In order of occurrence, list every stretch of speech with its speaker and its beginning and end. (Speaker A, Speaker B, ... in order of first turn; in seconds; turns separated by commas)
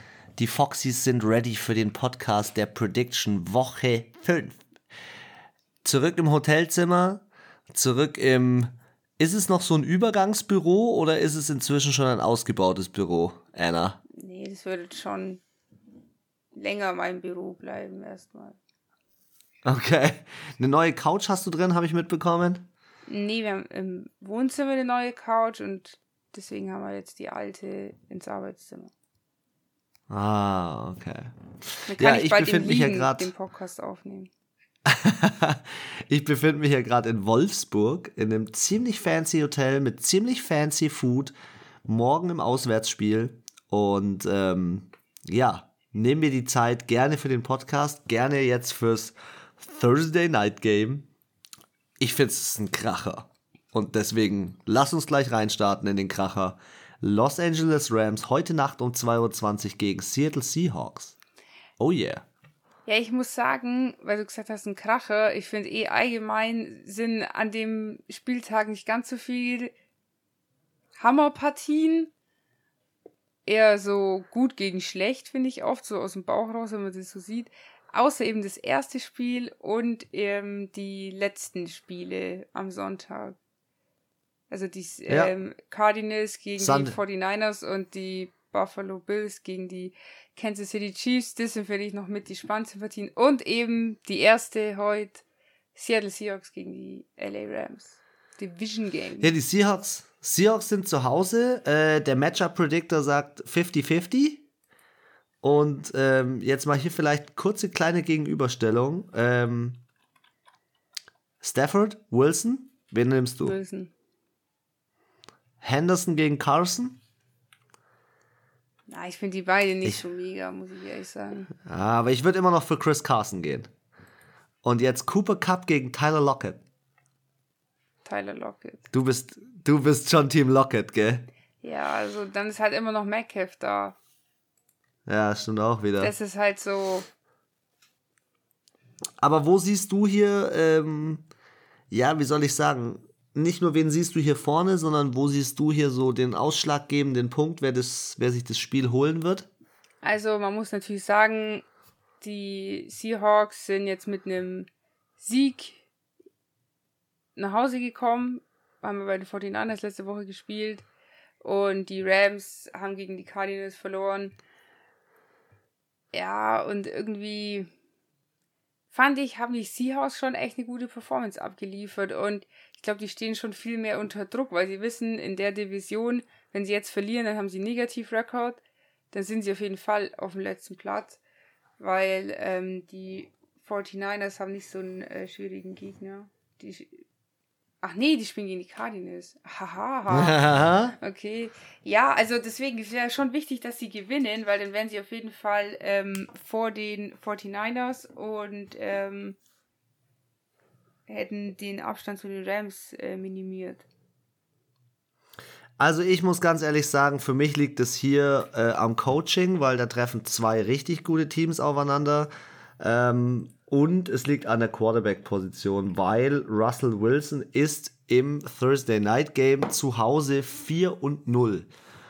Speaker A: 0.3-4.6, Speaker A: 5.8-14.0, Speaker B: 14.1-15.4, Speaker B: 16.5-18.6, Speaker A: 19.6-22.7, Speaker B: 23.1-28.9, Speaker A: 30.1-31.3, Speaker A: 31.9-33.3, Speaker B: 31.9-34.3, Speaker A: 34.9-41.3, Speaker A: 41.8-51.1, Speaker A: 52.0-61.1, Speaker A: 61.8-62.2, Speaker B: 62.9-69.7, Speaker B: 71.0-72.1, Speaker B: 73.5-83.4, Speaker B: 84.5-95.2, Speaker A: 85.1-85.3, Speaker A: 86.6-87.0, Speaker B: 95.7-99.3, Speaker A: 99.2-104.4, Speaker A: 105.4-109.8, Speaker A: 111.4-113.6, Speaker B: 113.4-113.9, Speaker A: 115.6-117.0, Speaker B: 118.9-121.5, Speaker A: 121.7-123.7, Speaker A: 124.6-126.6, Speaker B: 128.0-128.9, Speaker A: 128.9-131.3, Speaker B: 131.6-133.9, Speaker A: 135.1-136.1, Speaker B: 136.0-137.1, Speaker A: 139.2-141.2, Speaker A: 141.9-149.5, Speaker B: 150.0-151.6, Speaker B: 152.2-154.7, Speaker B: 155.2-155.8, Speaker B: 157.3-160.8, Speaker B: 161.4-164.3, Speaker B: 166.1-167.7, Speaker B: 168.9-178.6, Speaker B: 179.1-181.2, Speaker B: 181.8-187.0, Speaker B: 187.8-199.4, Speaker A: 190.1-190.9, Speaker B: 201.1-203.8, Speaker A: 205.8-221.7